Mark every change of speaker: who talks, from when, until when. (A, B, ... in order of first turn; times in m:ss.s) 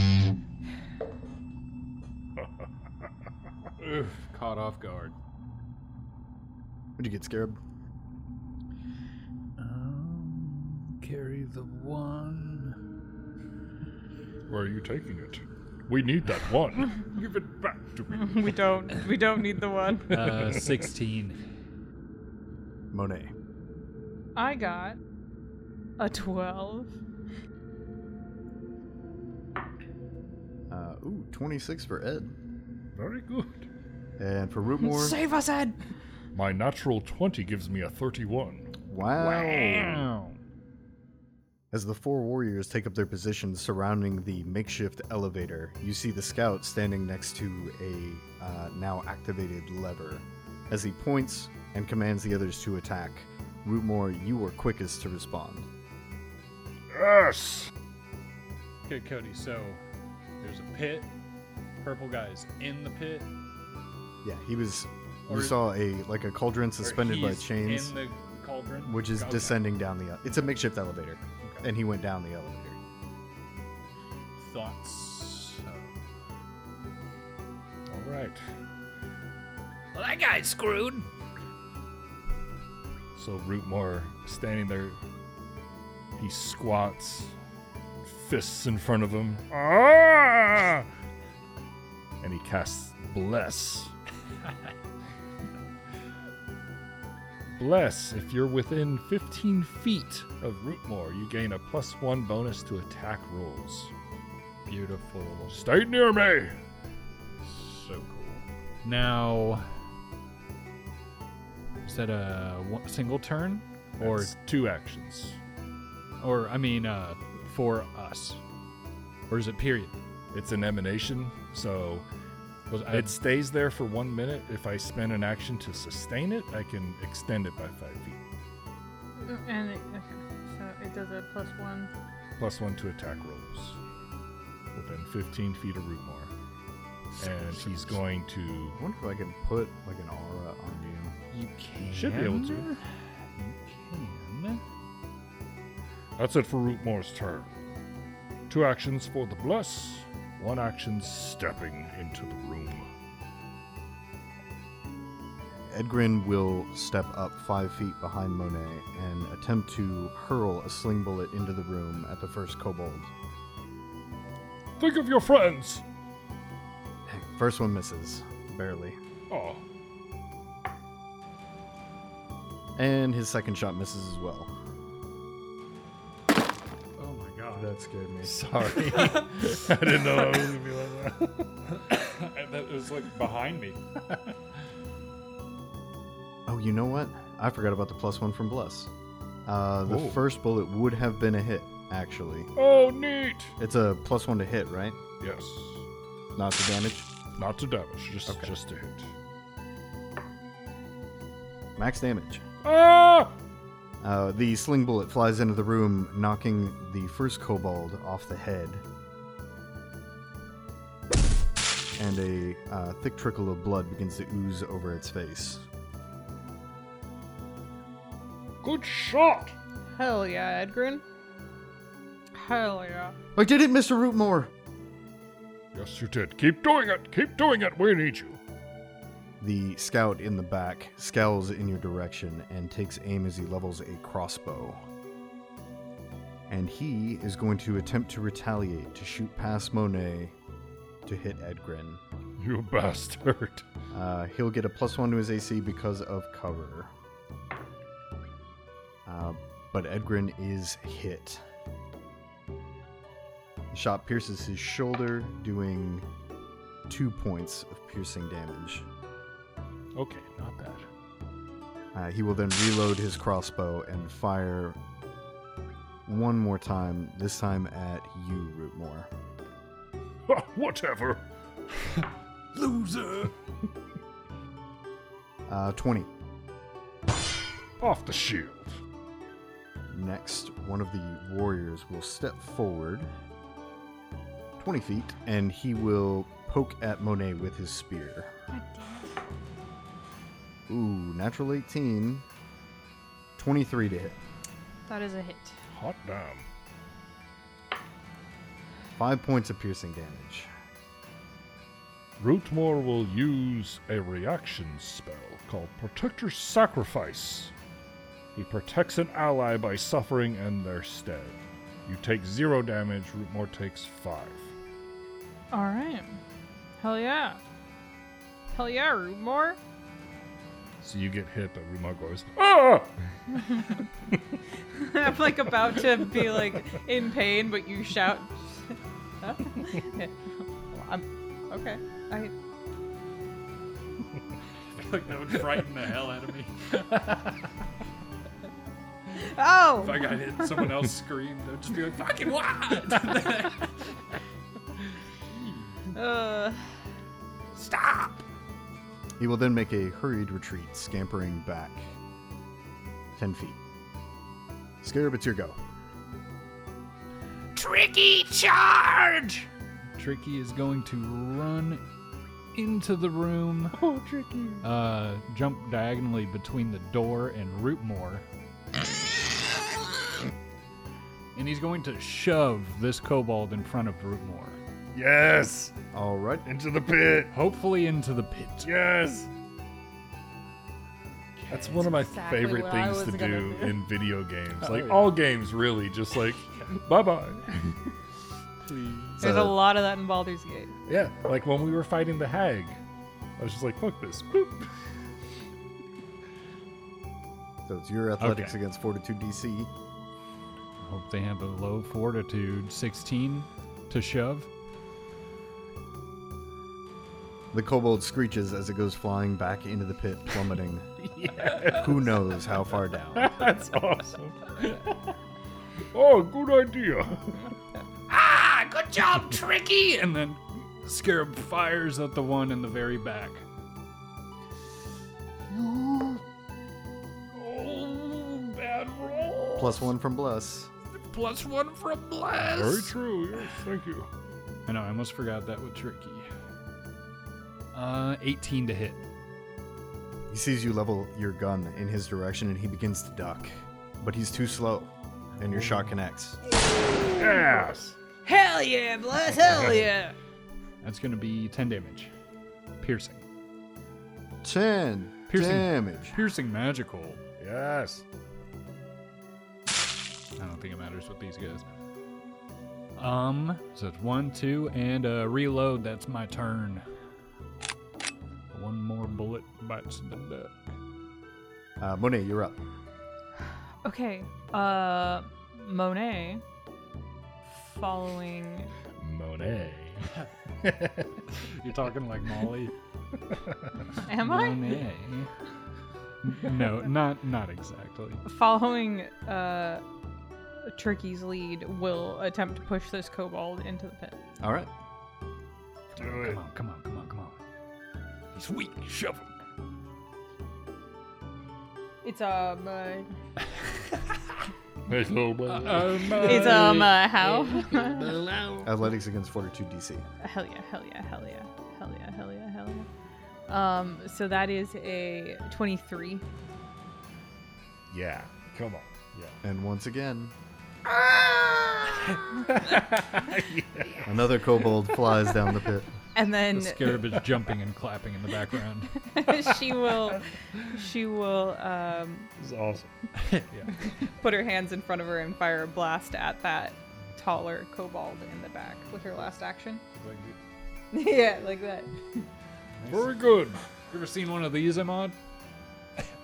0:03.8-0:05.2 A
0:07.0-0:07.6 B
0:09.6-0:12.8 A
0:14.5-0:18.5 C
0:18.1-0:20.3 D
0:20.1-0:21.4 A
0:20.3-0:20.8 C
0:22.9-0:23.3 B
0:24.4-0:25.0 D
0:26.0-0:27.0 D
0:30.7-0:32.3 B
0:33.0-0:33.7 C
0:34.2-0:35.2 B
0:34.8-0:35.8 D
0:36.3-0:38.7 C
0:38.9-0:40.0 B
0:39.2-0:40.4 A
0:41.7-0:55.7 B
0:56.9-0:57.7 C
0:58.8-0:59.8 A
1:00.4-1:01.1 A
1:01.8-1:03.3 A
1:04.2-1:08.0 B
1:05.3-1:05.6 A
1:06.8-1:09.6 A
1:08.8-1:12.8 B
1:14.4-1:15.9 A
1:17.9-1:18.4 C
1:19.9-1:21.1 E
1:23.2-1:25.0 C
1:26.2-1:27.4 C
1:28.0-1:30.9 C
1:32.2-1:33.9 C
1:37.6-1:43.9 C
1:44.7-1:45.6 A
1:45.5-1:46.6 C
1:47.4-1:49.7 A
1:51.8-1:54.3 A
1:54.0-1:55.4 C
1:56.2-1:58.4 A
1:59.3-1:59.9 A
2:00.3-2:02.1 C
2:02.7-2:03.1 A
2:02.9-2:08.2 C
2:09.2-2:11.9 D
2:12.4-2:13.8 C
2:14.8-2:16.3 C
2:17.2-2:18.8 C
2:18.8-2:21.2 B
2:21.3-2:22.8 A
2:21.8-2:22.7 C
2:23.4-2:24.6 A
2:26.2-2:27.6 C
2:28.5-2:32.9 C
2:35.7-2:43.1 B
2:44.8-2:45.8 C
2:47.1-2:49.0 B
2:49.3-2:49.6 C
2:52.8-2:54.5 B
2:57.0-2:57.7 A
2:57.5-2:58.4 B
2:58.2-3:01.5 C
3:01.9-3:04.0 A
3:06.5-3:08.9 B
3:09.5-3:12.5 B
3:09.9-3:10.2 C
3:12.6-3:13.6 C
3:13.6-3:15.0 B
3:15.2-3:15.9 C
3:16.4-3:17.1 B
3:17.4-3:19.1 C
3:21.8-3:22.4 B
3:22.6-3:23.4 C
3:24.0-3:28.8 B
3:32.0-3:35.6 B
3:38.6-3:39.6 C
3:40.0-3:41.0 D
3:42.3-3:43.2 D
3:43.4-3:44.5 B
3:45.7-3:48.4 C
3:49.4-3:54.8 B
3:56.5-4:00.4 B
4:01.0-4:02.0 B
4:02.4-4:03.7 C
4:03.9-4:06.9 B
4:09.1-4:11.4 B
4:13.7-4:16.1 B
4:16.9-4:18.9 B
4:20.0-4:20.9 C
4:21.9-4:24.8 B
4:26.1-4:29.1 B
4:30.3-4:31.2 C
4:32.6-4:33.3 A
4:35.5-4:36.1 B
4:37.8-4:38.8 C
4:39.9-4:43.1 B
4:44.6-4:48.3 B
4:48.5-4:49.2 D
4:50.7-4:52.2 B
4:53.4-4:54.2 B
4:54.9-4:55.6 D
4:55.7-4:56.5 C
4:59.0-5:00.5 B
5:02.2-5:07.5 C
5:08.4-5:14.5 C
5:15.5-5:16.2 D
5:16.8-5:17.4 D
5:18.5-5:19.6 D
5:20.8-5:23.4 C
5:23.4-5:23.7 D
5:24.1-5:24.4 C
5:24.8-5:30.2 D
5:30.7-5:32.3 D
5:34.8-5:37.4 A
5:39.2-5:40.6 D
5:39.8-5:43.9 A
5:42.0-5:42.8 E
5:45.3-5:45.9 A
5:45.9-5:46.7 D
5:47.5-5:48.2 E
5:49.2-5:51.9 B
5:53.2-5:53.6 B
5:54.8-5:55.6 B
5:57.6-5:59.5 E
6:00.0-6:01.8 A
6:02.5-6:03.8 A
6:03.7-6:04.6 C
6:04.6-6:08.2 A
6:11.4-6:14.6 A
6:14.9-6:15.7 C
6:15.9-6:16.4 B
6:16.4-6:17.3 C
6:17.3-6:18.7 A
6:18.6-6:19.3 C
6:21.4-6:21.8 A
6:21.5-6:27.8 C
6:21.8-6:23.8 D
6:24.6-6:25.2 A
6:28.6-6:29.2 A
6:29.2-6:29.6 B
6:29.2-6:30.8 D
6:30.9-6:32.8 C
6:33.4-6:34.7 C
6:37.7-6:39.7 B
6:38.2-6:38.6 A
6:40.8-6:44.5 A
6:47.5-6:50.9 B
6:51.0-6:52.1 C
6:51.7-6:53.4 B
6:53.2-6:55.0 C
6:55.9-6:57.4 C
6:58.1-7:00.0 E
7:00.0-7:03.4 A
7:05.5-7:06.2 A
7:07.3-7:09.8 C
7:09.6-7:10.7 B
7:11.0-7:12.9 E
7:12.4-7:14.1 C
7:14.7-7:16.3 A
7:17.7-7:19.0 A
7:20.3-7:26.4 B
7:25.4-7:25.8 A
7:27.2-7:28.0 C
7:28.3-7:30.1 D
7:29.4-7:29.9 C
7:30.8-7:32.1 A
7:32.8-7:33.2 A
7:34.4-7:36.2 B
7:35.3-7:37.2 A
7:37.4-7:38.0 C
7:40.4-7:41.6 A
7:43.0-7:46.9 A
7:48.5-7:50.7 A
7:51.8-7:52.6 B
7:53.8-7:56.4 D
7:57.5-7:58.7 D
7:59.0-8:00.1 C
8:00.6-8:01.2 C
8:01.4-8:02.7 A
8:03.3-8:03.9 C
8:04.0-8:04.9 D
8:04.1-8:05.3 A
8:06.2-8:08.2 A
8:08.2-8:09.8 D
8:10.6-8:14.2 D
8:14.4-8:14.7 B
8:16.0-8:16.4 C
8:16.0-8:17.4 A
8:18.4-8:19.2 A
8:22.0-8:23.1 D
8:24.9-8:27.0 C
8:25.5-8:27.2 A
8:26.2-8:28.1 D
8:27.7-8:28.7 C
8:28.6-8:30.0 B
8:30.2-8:32.9 D
8:33.5-8:36.2 D
8:37.9-8:39.4 C
8:39.4-8:40.4 B
8:40.9-8:44.2 C
8:44.0-8:45.9 B
8:46.2-8:47.1 D
8:46.5-8:49.0 A
8:49.0-8:52.3 D
8:49.3-8:50.8 C
8:52.4-8:52.9 C
8:53.2-8:53.6 A
8:54.0-8:59.8 D
8:59.9-9:00.4 A
9:00.9-9:02.3 D
9:02.8-9:03.2 A
9:02.9-9:03.6 C
9:03.9-9:05.2 A